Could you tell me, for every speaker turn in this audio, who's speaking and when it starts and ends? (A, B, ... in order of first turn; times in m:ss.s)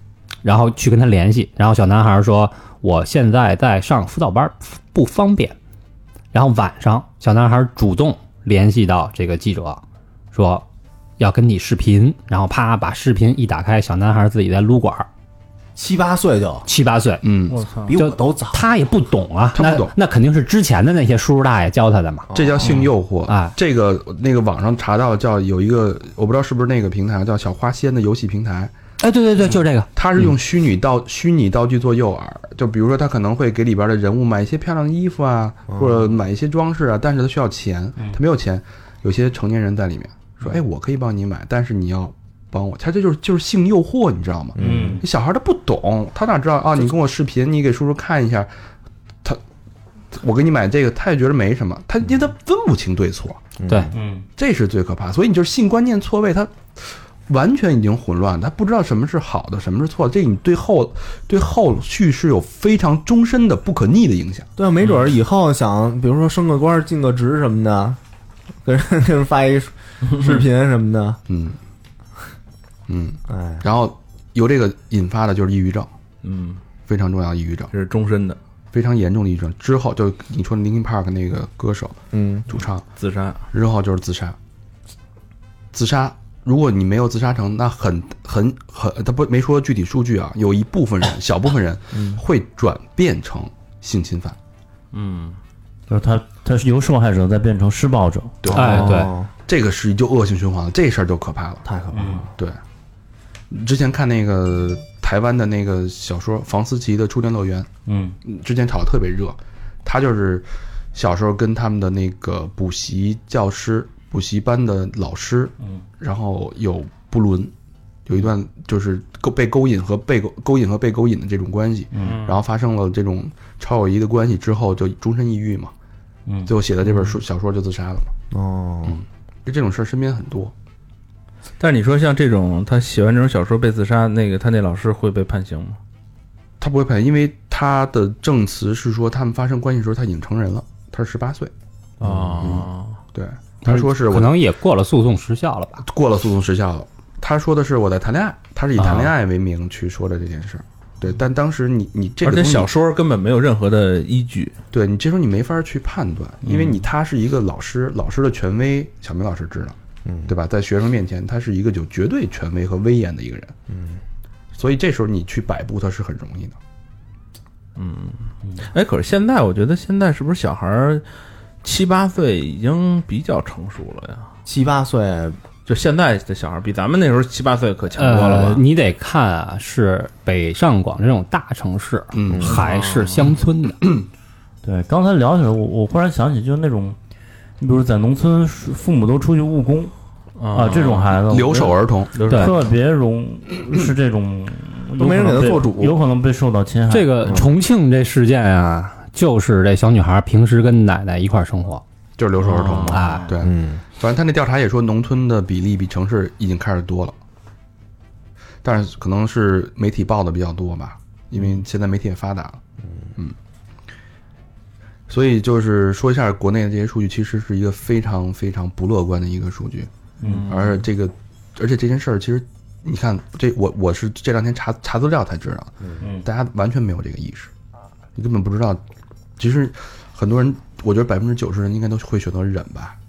0:00.4-0:05.6 A
0:06.3-0:09.8 A
0:10.3-0:10.6 A
0:11.2-0:15.1 A
0:15.8-0:16.7 B
0:16.7-0:17.2 A
0:17.2-0:17.6 C
0:17.5-0:18.0 D
0:17.9-0:18.7 B
0:17.9-0:22.3 A
0:19.6-0:19.9 C
0:22.3-0:22.8 B
0:22.3-0:28.7 C
0:23.3-0:23.6 A
0:29.0-0:29.9 A
0:30.0-0:48.5 C
0:35.7-0:36.1 B
0:44.6-0:45.0 B
0:44.6-0:45.0 E
0:50.1-0:53.4 C
0:53.6-0:54.0 B
0:53.9-0:54.3 E
0:54.4-1:04.5 C
1:04.6-1:08.0 B
1:08.6-1:11.2 B
1:11.3-1:11.6 C
1:12.9-1:15.9 C
1:13.3-1:13.6 B
1:16.2-1:16.6 D
1:16.9-1:17.7 C
1:17.7-1:18.4 D
1:18.7-1:22.0 C
1:22.1-1:22.5 B
1:22.5-1:22.8 C
1:23.0-1:23.5 D
1:23.5-1:24.4 C
1:25.7-1:34.4 C
1:31.9-1:32.2 B
1:34.9-1:35.4 D
1:35.9-1:39.0 E
1:38.4-1:41.7 C
1:38.5-1:39.1 A
1:38.5-1:39.3 B
1:41.6-1:42.3 B
1:41.9-1:42.3 E
1:42.3-1:42.6 C
1:43.5-1:47.7 C
1:47.9-1:48.2 E
1:48.2-1:57.5 C
1:58.1-2:05.7 C
2:02.0-2:02.2 E
2:02.0-2:02.4 D
2:06.5-2:08.1 C
2:08.3-2:09.0 B
2:08.9-2:10.5 C
2:11.6-2:15.8 D
2:16.6-2:21.5 C
2:22.0-2:23.0 D
2:22.4-2:24.3 C
2:23.6-2:25.8 A
2:25.8-2:32.7 C
2:28.8-2:29.1 A
2:32.2-2:34.6 D
2:34.7-2:39.8 C
2:36.4-2:36.8 D
2:40.1-2:40.3 B
2:40.3-2:43.5 C
2:43.7-2:44.0 B
2:44.6-2:46.6 C
2:47.8-2:51.0 D
2:51.6-2:54.3 D
2:54.5-2:55.4 B
2:55.7-2:58.6 D
2:58.0-3:03.8 A
3:02.1-3:02.6 C
3:02.3-3:02.6 B
3:02.5-3:03.3 D
3:04.6-3:07.0 E
3:07.6-3:09.9 E
3:10.4-3:11.2 D
3:10.5-3:17.5 E
3:11.3-3:12.2 C
3:12.2-3:12.6 D
3:15.0-3:16.0 B
3:16.9-3:21.8 A
3:22.2-3:27.2 C
3:22.4-3:23.2 D
3:22.8-3:23.3 A
3:23.4-3:23.8 B
3:28.6-3:32.6 C
3:35.1-3:39.9 C
3:40.2-3:40.5 E
3:40.2-3:40.8 D
3:40.5-3:47.5 C
3:46.0-3:46.3 E
3:48.2-3:48.8 C
3:49.4-3:53.0 C